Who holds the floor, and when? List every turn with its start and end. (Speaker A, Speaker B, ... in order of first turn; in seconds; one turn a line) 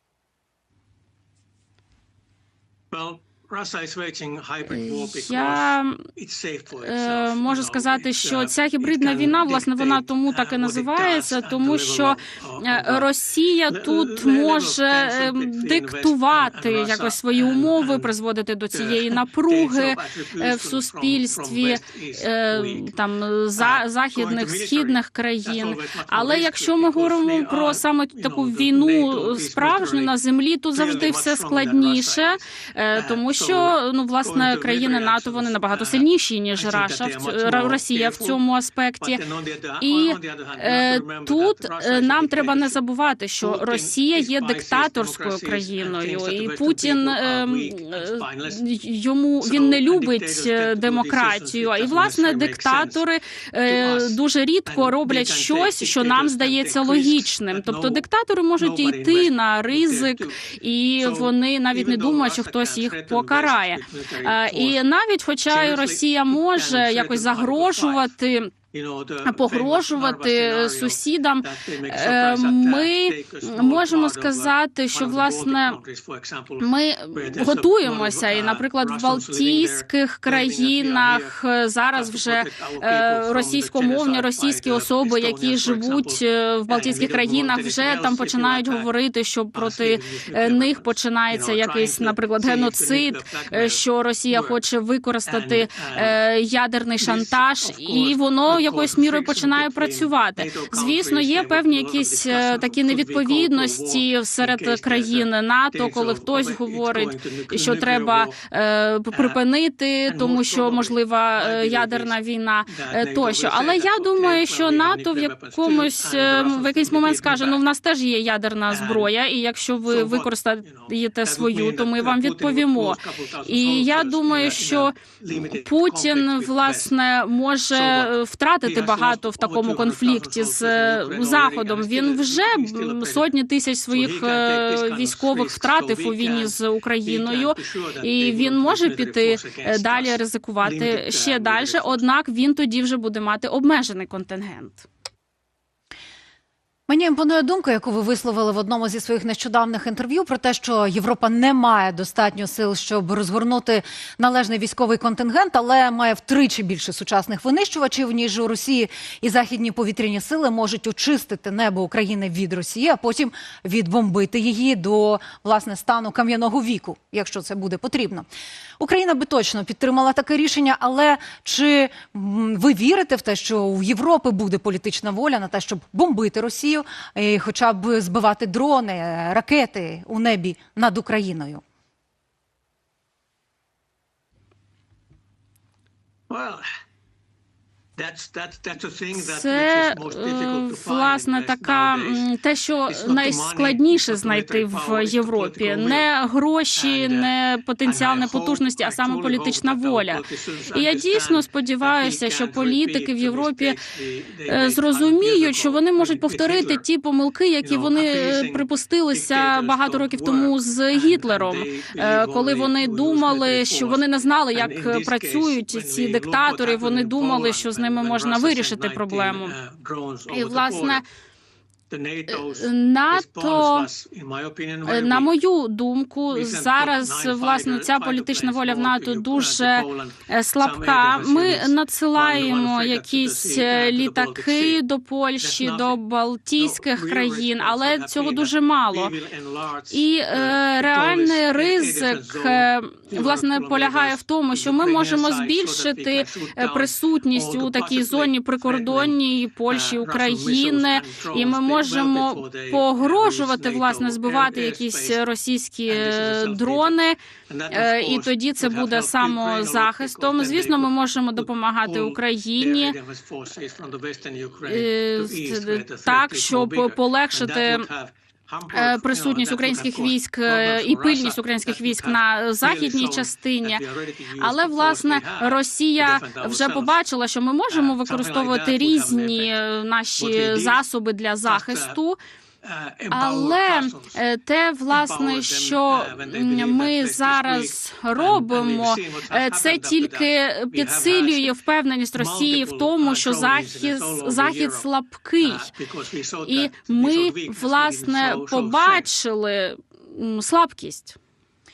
Speaker A: 2.9-13.1
Speaker B: 4.7-6.0
Speaker B: 6.8-39.2
Speaker A: 13.7-18.1
Speaker A: 18.7-22.9
Speaker A: 23.6-30.1
Speaker A: 30.7-32.4
Speaker A: 32.9-38.4
Speaker A: 39.0-42.8
Speaker B: 39.8-68.5
Speaker A: 43.4-48.6
Speaker A: 49.4-53.0
Speaker A: 53.7-58.0
Speaker A: 58.6-64.8
Speaker A: 65.5-68.1
Speaker A: 68.7-81.3
Speaker B: 69.2-75.8
Speaker B: 76.6-124.9
Speaker A: 81.9-88.9
Speaker A: 89.5-94.6
Speaker A: 95.3-96.2
Speaker A: 97.0-108.4
Speaker A: 109.1-109.4
Speaker A: 110.1-112.2
Speaker A: 112.7-117.6
Speaker A: 118.7-119.1
Speaker A: 119.9-126.9
Speaker B: 125.5-144.8
Speaker A: 127.7-133.3
Speaker A: 133.9-142.0
Speaker C: 146.9-168.2
Speaker C: 168.8-181.6
Speaker A: 186.3-186.6
Speaker A: 188.0-192.2
Speaker B: 189.1-203.8
Speaker A: 192.9-196.1
Speaker A: 196.8-197.3
Speaker A: 197.8-206.8
Speaker B: 204.5-219.5
Speaker A: 207.6-221.0
Speaker B: 220.3-221.0
Speaker A: 221.9-225.3
Speaker B: 222.3-223.9
Speaker B: 224.8-239.2
Speaker A: 226.3-234.8
Speaker A: 235.4-236.0
Speaker A: 236.6-249.2
Speaker B: 239.9-257.2
Speaker A: 249.7-255.2
Speaker A: 255.9-277.0
Speaker B: 257.7-262.9
Speaker B: 264.6-267.9
Speaker B: 268.7-273.8
Speaker B: 274.4-282.2
Speaker A: 277.7-279.5
Speaker A: 280.2-280.8
Speaker A: 281.4-282.0
Speaker A: 282.6-284.2
Speaker B: 283.1-295.7
Speaker A: 284.9-291.5
Speaker A: 292.1-294.9
Speaker A: 295.4-299.1
Speaker B: 296.4-301.2